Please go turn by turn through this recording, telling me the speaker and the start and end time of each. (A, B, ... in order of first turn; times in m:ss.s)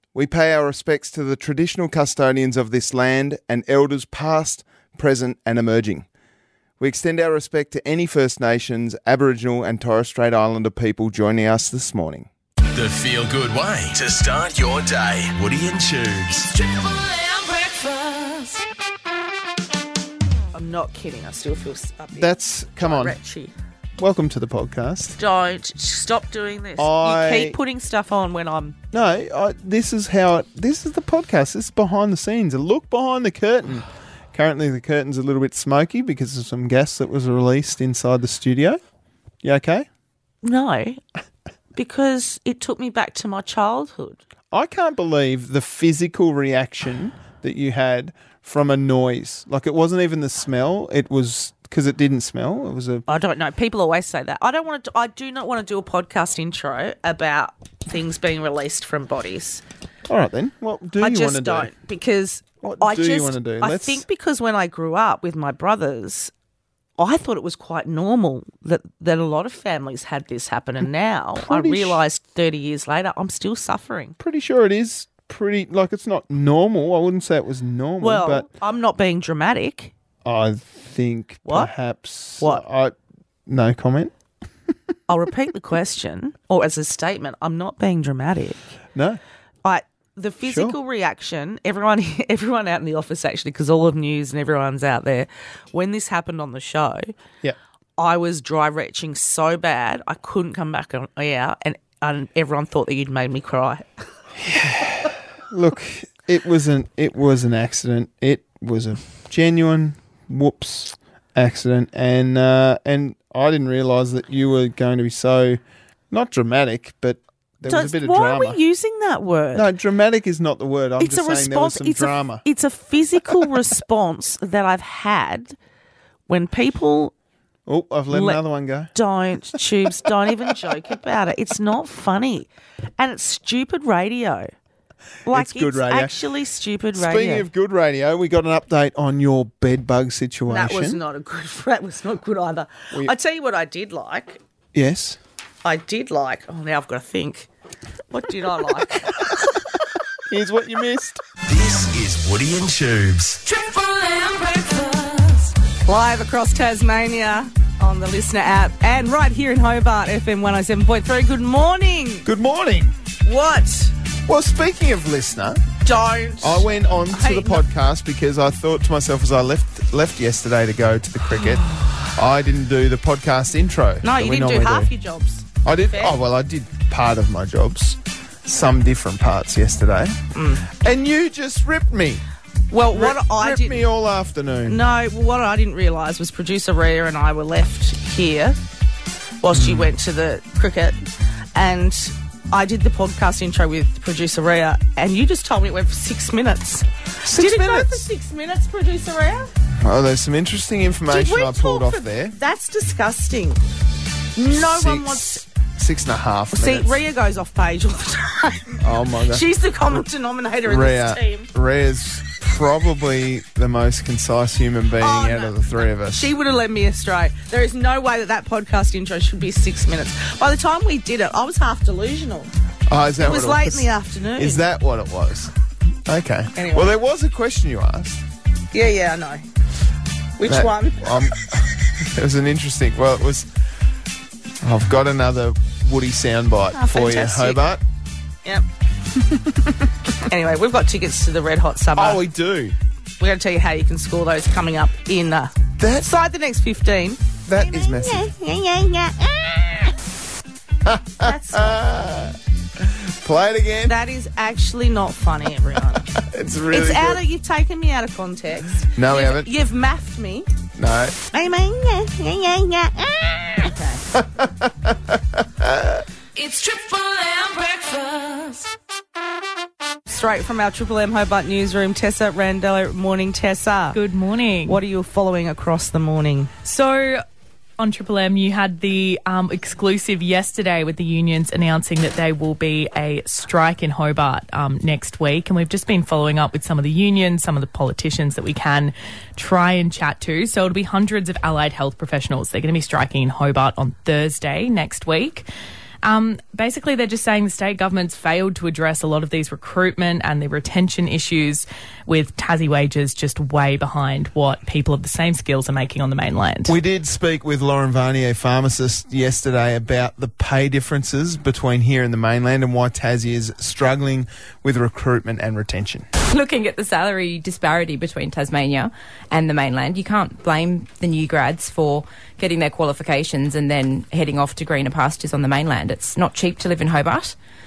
0:00.1-0:06.1 A
0:06.8-0:12.3 A
0:12.7-0:16.5 B
0:20.5-0:23.5 C
0:22.2-0:23.2 A
0:24.0-0:25.2 A
0:25.2-0:28.8 C
0:26.8-0:27.6 A
0:28.9-0:38.8 A
0:39.4-0:39.9 A
0:40.4-0:41.0 C
0:41.8-0:44.2 C
0:44.5-0:53.0 A
0:53.1-0:59.6 C
1:00.0-1:01.7 A
1:01.0-1:06.3 C
1:02.6-1:04.0 A
1:07.0-1:14.2 C
1:11.4-1:12.0 A
1:14.2-1:18.5 A
1:18.0-1:19.9 C
1:20.2-1:23.0 A
1:21.5-1:21.7 C
1:22.4-1:22.6 C
1:23.5-1:24.1 A
1:25.1-1:28.6 C
1:29.0-1:29.2 A
1:29.6-1:37.1 C
1:30.4-1:30.8 A
1:38.0-1:43.9 C
1:44.4-1:55.6 A
1:56.1-1:58.6 A
1:57.7-1:59.7 C
1:59.5-2:02.4 A
2:01.0-2:05.6 C
2:06.3-2:07.1 C
2:07.7-2:08.9 A
2:08.1-2:08.4 C
2:08.9-2:14.5 C
2:15.3-2:17.5 C
2:15.3-2:16.2 A
2:17.0-2:21.0 A
2:20.5-2:24.4 C
2:24.7-2:25.2 A
2:25.6-2:27.5 C
2:28.1-2:29.2 C
2:30.3-2:31.2 A
2:31.5-2:33.4 B
2:33.7-2:34.3 D
2:35.8-2:42.3 C
2:42.3-2:43.0 A
2:43.2-2:43.9 C
2:44.3-2:45.6 A
2:45.8-2:47.6 C
2:46.4-2:54.9 A
2:54.0-2:56.2 C
2:55.6-3:02.2 A
3:00.3-3:00.7 C
3:02.7-3:03.8 C
3:02.9-3:04.8 A
3:04.7-3:08.6 C
3:09.4-3:11.0 C
3:09.5-3:09.9 A
3:11.6-3:19.5 C
3:17.2-3:18.1 A
3:19.8-3:22.4 A
3:21.1-3:23.6 C
3:24.4-3:25.4 C
3:24.6-3:27.0 A
3:26.5-3:31.5 C
3:28.8-3:29.5 A
3:30.6-3:36.3 A
3:35.0-3:35.6 C
3:36.1-3:42.5 C
3:42.9-3:45.5 A
3:43.2-3:44.6 C
3:46.1-3:48.2 A
3:46.6-3:46.9 C
3:48.7-3:49.4 C
3:50.4-3:51.1 C
3:50.5-3:53.5 A
3:54.6-3:57.8 A
3:56.7-3:57.6 C
3:59.2-3:59.8 A
4:00.3-4:02.2 C
4:02.0-4:02.8 A
4:03.2-4:09.9 C
4:05.8-4:06.1 A
4:07.5-4:08.3 A
4:10.8-4:14.0 A
4:11.2-4:11.9 C
4:13.9-4:16.1 C
4:16.1-4:17.2 A
4:16.7-4:20.5 C
4:18.9-4:19.5 A
4:20.8-4:21.2 A
4:21.3-4:24.0 C
4:24.1-4:26.0 A
4:26.4-4:28.5 D
4:30.1-4:34.0 C
4:33.9-4:34.8 D
4:34.7-4:36.5 C
4:36.6-4:37.2 D
4:37.8-4:55.5 D
4:56.0-5:06.7 D
5:06.7-5:16.1 A
5:16.2-5:27.4 E